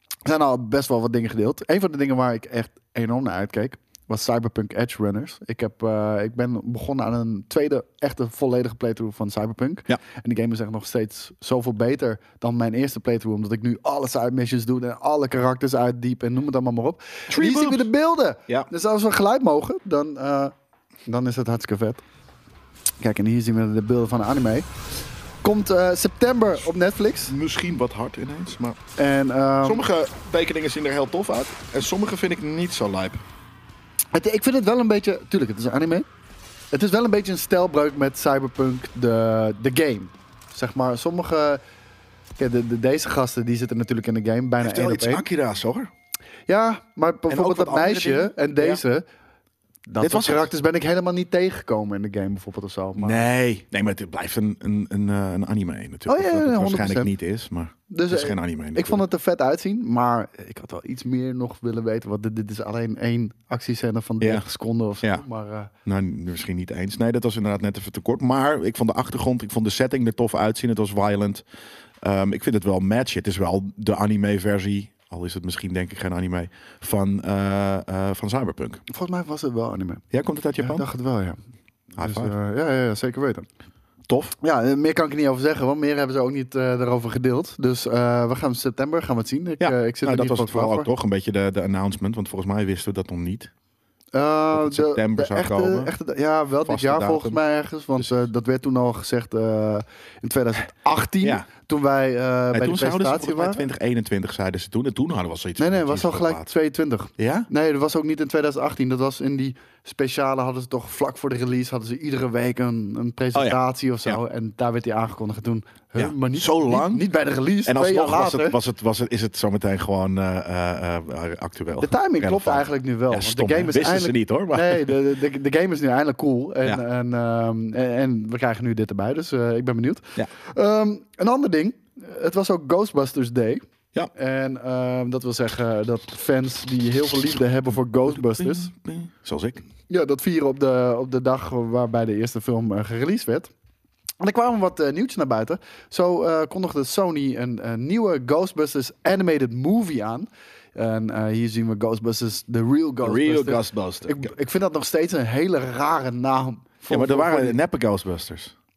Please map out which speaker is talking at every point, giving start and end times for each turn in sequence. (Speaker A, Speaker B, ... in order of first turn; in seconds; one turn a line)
Speaker A: 0.2-20.5
Speaker B: 17.3-17.9
Speaker A: 21.1-22.0
Speaker A: 23.0-24.7
Speaker A: 25.4-27.4
Speaker B: 27.3-28.8
Speaker A: 29.0-29.8
Speaker B: 29.6-33.2
Speaker A: 34.1-36.1
Speaker A: 36.7-41.6
Speaker A: 42.4-45.2
Speaker B: 44.6-45.9
Speaker A: 46.5-49.0
Speaker B: 47.3-48.8
Speaker A: 49.9-53.2
Speaker B: 50.0-50.5
Speaker B: 53.0-59.0
Speaker A: 56.1-57.1
Speaker A: 57.9-65.7
Speaker B: 65.8-71.5
Speaker B: 72.0-78.8
Speaker A: 78.9-80.0
Speaker B: 80.1-80.9
Speaker A: 80.6-81.4
Speaker A: 82.0-83.5
Speaker B: 82.0-82.3
Speaker B: 84.1-84.4
Speaker A: 84.4-90.9
Speaker B: 89.6-93.5
Speaker A: 94.1-103.7
Speaker B: 94.5-95.9
Speaker B: 96.7-97.4
Speaker B: 102.5-106.5
Speaker A: 105.6-118.6
Speaker B: 107.2-107.5
Speaker B: 113.3-114.2
Speaker B: 116.0-117.1
Speaker B: 117.6-125.0
Speaker A: 121.8-133.6
Speaker A: 134.1-138.7
Speaker B: 138.1-139.6
Speaker A: 139.9-143.5
Speaker A: 144.2-157.6
Speaker B: 153.0-154.3
Speaker B: 156.9-158.6